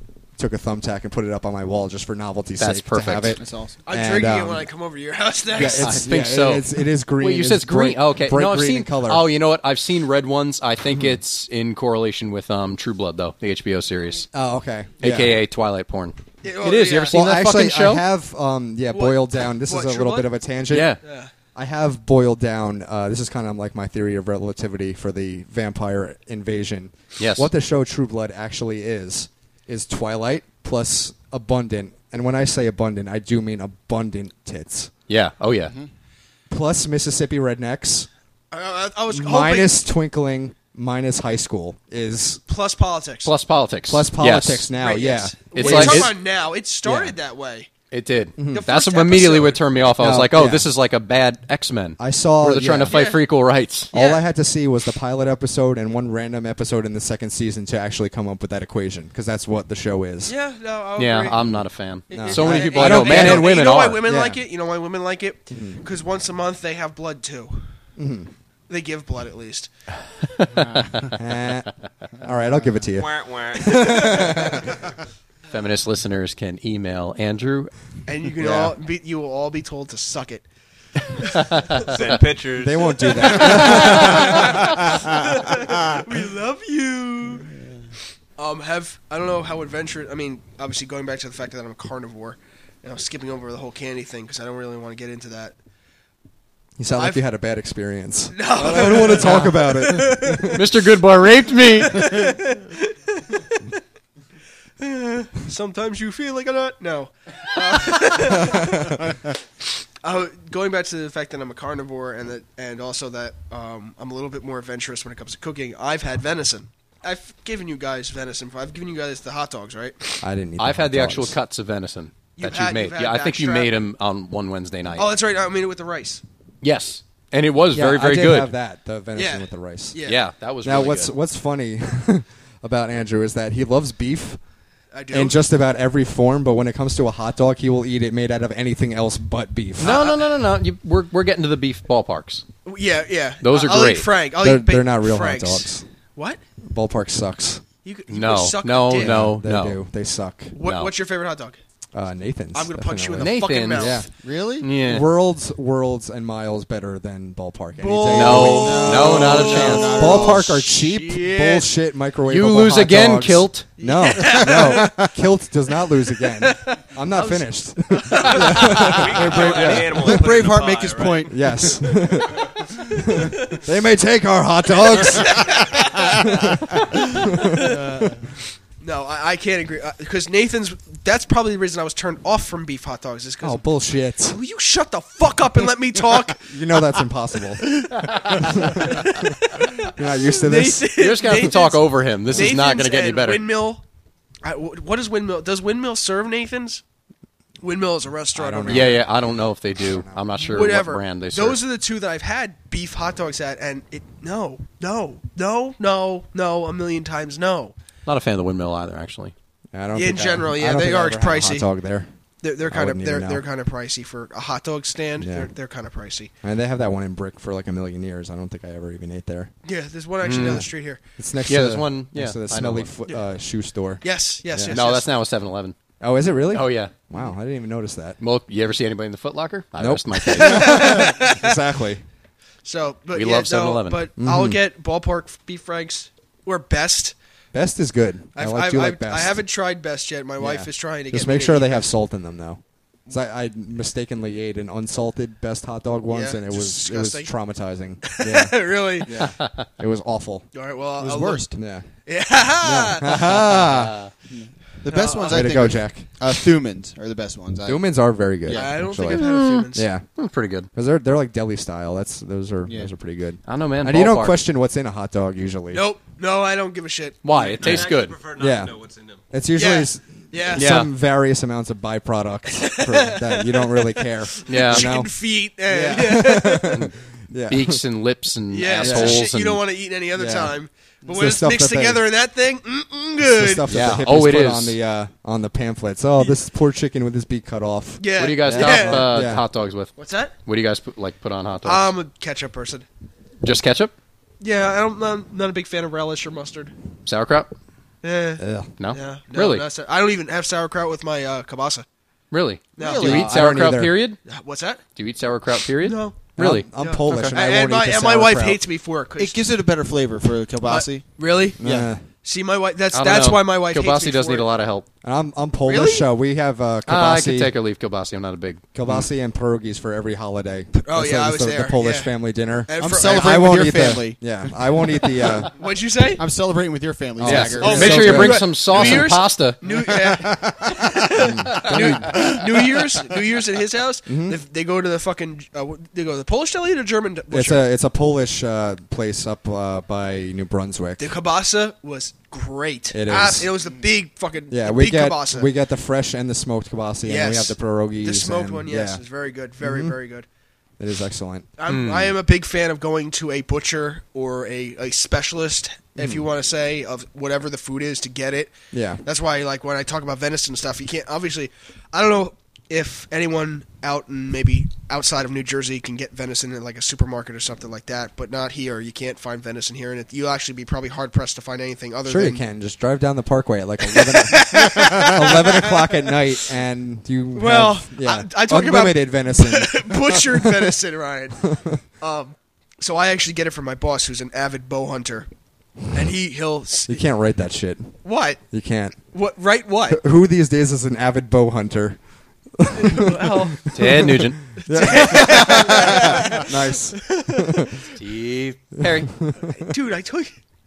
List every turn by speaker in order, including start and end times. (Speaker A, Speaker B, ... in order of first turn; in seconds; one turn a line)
Speaker A: 0.4-4.7
Speaker B: 2.6-3.4
Speaker C: 3.4-3.8
Speaker D: 3.9-6.0
Speaker A: 5.5-9.3
Speaker B: 5.8-6.7
Speaker B: 7.2-14.3
Speaker A: 14.3-15.4
Speaker B: 15.0-18.1
Speaker D: 16.4-17.2
Speaker A: 17.1-20.9
Speaker D: 18.9-20.3
Speaker B: 20.7-21.0
Speaker D: 21.0-21.3
Speaker A: 21.6-34.9
Speaker B: 27.2-27.5
Speaker B: 35.1-35.8
Speaker A: 36.5-38.1
Speaker D: 38.5-39.8
Speaker A: 39.1-42.4
Speaker D: 42.5-43.3
Speaker B: 43.2-44.7
Speaker A: 43.9-46.1
Speaker D: 44.7-47.7
Speaker B: 45.5-46.1
Speaker A: 46.8-47.2
Speaker B: 47.9-53.9
Speaker A: 48.4-48.7
Speaker D: 48.5-49.7
Speaker A: 50.0-50.7
Speaker A: 52.0-53.0
Speaker D: 52.9-53.2
Speaker A: 53.9-60.3
Speaker D: 53.9-54.2
Speaker D: 60.3-61.4
Speaker B: 61.0-64.0
Speaker D: 62.1-67.6
Speaker A: 62.1-64.4
Speaker A: 65.5-65.8
Speaker A: 68.0-68.3
Speaker D: 68.7-69.7
Speaker B: 70.4-71.2
Speaker C: 70.5-71.1
Speaker A: 71.2-71.7
Speaker A: 72.2-74.8
Speaker E: 72.9-74.5
Speaker B: 75.5-77.7
Speaker D: 78.1-80.4
Speaker A: 78.4-78.8
Speaker E: 81.8-83.6
Speaker A: 82.6-84.9
Speaker D: 83.1-87.5
Speaker D: 88.4-95.5
Speaker A: 96.8-100.7
Speaker D: 97.0-97.2
Speaker D: 98.3-100.6
Speaker B: 98.7-102.4
Speaker D: 101.8-103.6
Speaker D: 104.8-109.2
Speaker A: 108.4-108.8
Speaker D: 110.0-120.2
Speaker A: 120.2-121.4
Speaker B: 120.6-125.1
Speaker D: 122.4-123.7
Speaker D: 125.0-126.2
Speaker B: 126.6-128.5
Speaker A: 127.7-130.0
Speaker D: 129.2-130.2
Speaker B: 130.1-131.1
Speaker A: 130.6-134.4
Speaker D: 134.9-135.4
Speaker A: 135.1-140.1
Speaker B: 139.8-142.4
Speaker D: 139.8-140.2
Speaker D: 142.7-146.4
Speaker B: 143.4-144.1
Speaker A: 144.4-145.8
Speaker A: 146.7-147.6
Speaker D: 147.8-149.2
Speaker B: 148.1-149.8
Speaker A: 148.9-150.6
Speaker D: 150.6-151.6
Speaker B: 150.6-150.9
Speaker A: 151.9-154.1
Speaker D: 152.5-154.1
Speaker B: 153.2-154.0
Speaker C: 154.2-154.7
Speaker B: 154.6-155.1
Speaker A: 154.8-170.3
Speaker D: 157.8-161.7
Speaker B: 158.1-160.1
Speaker C: 158.2-160.5
Speaker B: 162.3-163.7
Speaker D: 163.8-165.1
Speaker C: 164.5-164.9
Speaker D: 165.8-169.9
Speaker E: 168.5-171.3
Speaker C: 169.6-171.3
Speaker A: 171.3-177.9
Speaker D: 174.8-176.2
Speaker D: 176.9-177.8
Speaker D: 178.8-183.7
Speaker A: 183.4-184.4
Speaker D: 184.2-186.6
Speaker A: 186.4-191.4
Speaker D: 187.6-193.8
Speaker B: 191.0-193.4
Speaker D: 194.4-196.8
Speaker D: 197.6-199.1
Speaker A: 198.3-200.2
Speaker B: 198.7-201.6
Speaker D: 200.4-207.7
Speaker B: 208.1-209.3
Speaker A: 209.7-212.1
Speaker D: 209.9-211.7
Speaker D: 212.4-216.3
Speaker A: 212.7-213.4
Speaker A: 215.2-215.5
Speaker A: 216.4-219.5
Speaker D: 219.7-221.0
Speaker B: 220.2-220.7
Speaker A: 220.3-220.7
Speaker A: 221.2-224.8
Speaker B: 221.5-222.9
Speaker D: 224.0-225.1
Speaker B: 224.7-225.8
Speaker A: 226.0-228.2
Speaker B: 226.5-226.9
Speaker B: 228.2-230.9
Speaker A: 229.8-232.0
Speaker D: 230.2-231.6
Speaker D: 232.7-237.1
Speaker B: 233.1-234.0
Speaker A: 234.2-234.6
Speaker A: 237.5-239.4
Speaker D: 238.4-241.9
Speaker A: 240.4-250.5
Speaker D: 246.1-247.3
Speaker D: 248.0-249.2
Speaker D: 250.5-251.6
Speaker C: 251.0-251.6
Speaker A: 251.5-251.9
Speaker D: 252.1-253.5
Speaker A: 252.6-254.0
Speaker C: 254.3-257.8
Speaker D: 254.9-255.8
Speaker A: 255.3-256.1
Speaker A: 257.7-260.1
Speaker C: 258.4-258.8
Speaker D: 258.5-259.9
Speaker B: 259.1-260.7
Speaker A: 260.7-265.9
Speaker C: 262.7-262.9
Speaker B: 263.4-264.4
Speaker D: 265.7-267.8
Speaker B: 267.2-268.2
Speaker E: 267.3-269.2
Speaker A: 268.4-268.7
Speaker A: 269.3-275.1
Speaker D: 269.6-270.7
Speaker B: 270.6-270.9
Speaker D: 272.5-276.8
Speaker B: 274.5-274.9
Speaker A: 275.7-277.8
Speaker B: 277.5-279.6
Speaker D: 278.5-283.7
Speaker A: 278.8-279.3
Speaker A: 280.1-280.6
Speaker A: 281.1-282.0
Speaker A: 283.3-289.4
Speaker B: 283.7-284.8
Speaker D: 288.0-289.2
Speaker B: 288.2-289.9
Speaker D: 290.0-290.4
Speaker B: 290.5-291.9
Speaker D: 291.6-292.9
Speaker B: 293.4-293.9
Speaker D: 294.4-296.7
Speaker B: 297.1-297.5
Speaker D: 298.0-301.9
Speaker A: 298.4-298.7
Speaker B: 298.8-299.6
Speaker B: 302.3-304.2
Speaker D: 302.8-303.3
Speaker C: 302.8-303.3
Speaker A: 303.0-304.0
Speaker D: 304.3-304.8
Speaker B: 305.0-307.4
Speaker D: 305.8-309.5
Speaker A: 306.4-308.6
Speaker C: 309.2-311.1
Speaker D: 310.6-311.6
Speaker A: 311.6-312.1
Speaker C: 311.6-311.9
Speaker D: 312.2-314.5
Speaker B: 312.9-314.9
Speaker A: 315.0-317.5
Speaker D: 315.7-316.1
Speaker B: 316.9-318.6
Speaker A: 318.7-325.5
Speaker D: 320.8-322.1
Speaker D: 322.7-323.8
Speaker C: 322.8-324.6
Speaker D: 325.5-326.2
Speaker C: 326.2-328.4
Speaker A: 327.2-329.0
Speaker B: 327.2-329.6
Speaker D: 327.6-337.6
Speaker A: 331.1-332.4
Speaker A: 334.1-334.4
Speaker A: 337.3-341.1
Speaker D: 341.0-345.5
Speaker A: 342.9-343.6
Speaker A: 344.5-349.0
Speaker D: 347.0-350.2
Speaker A: 349.6-349.9
Speaker A: 350.8-351.5
Speaker D: 351.6-372.4
Speaker B: 351.7-352.1
Speaker A: 356.0-356.2
Speaker A: 358.7-359.0
Speaker A: 372.1-380.7
Speaker D: 373.9-376.1
Speaker D: 377.3-385.3
Speaker A: 381.5-381.8
Speaker D: 385.9-387.0
Speaker A: 386.9-388.0
Speaker D: 388.0-388.4
Speaker A: 388.5-389.0
Speaker D: 389.1-390.0
Speaker A: 389.9-392.0
Speaker A: 392.6-397.7
Speaker D: 392.8-393.7
Speaker B: 393.7-394.4
Speaker D: 394.7-397.8
Speaker B: 397.9-399.1
Speaker A: 398.8-399.7
Speaker D: 399.4-400.3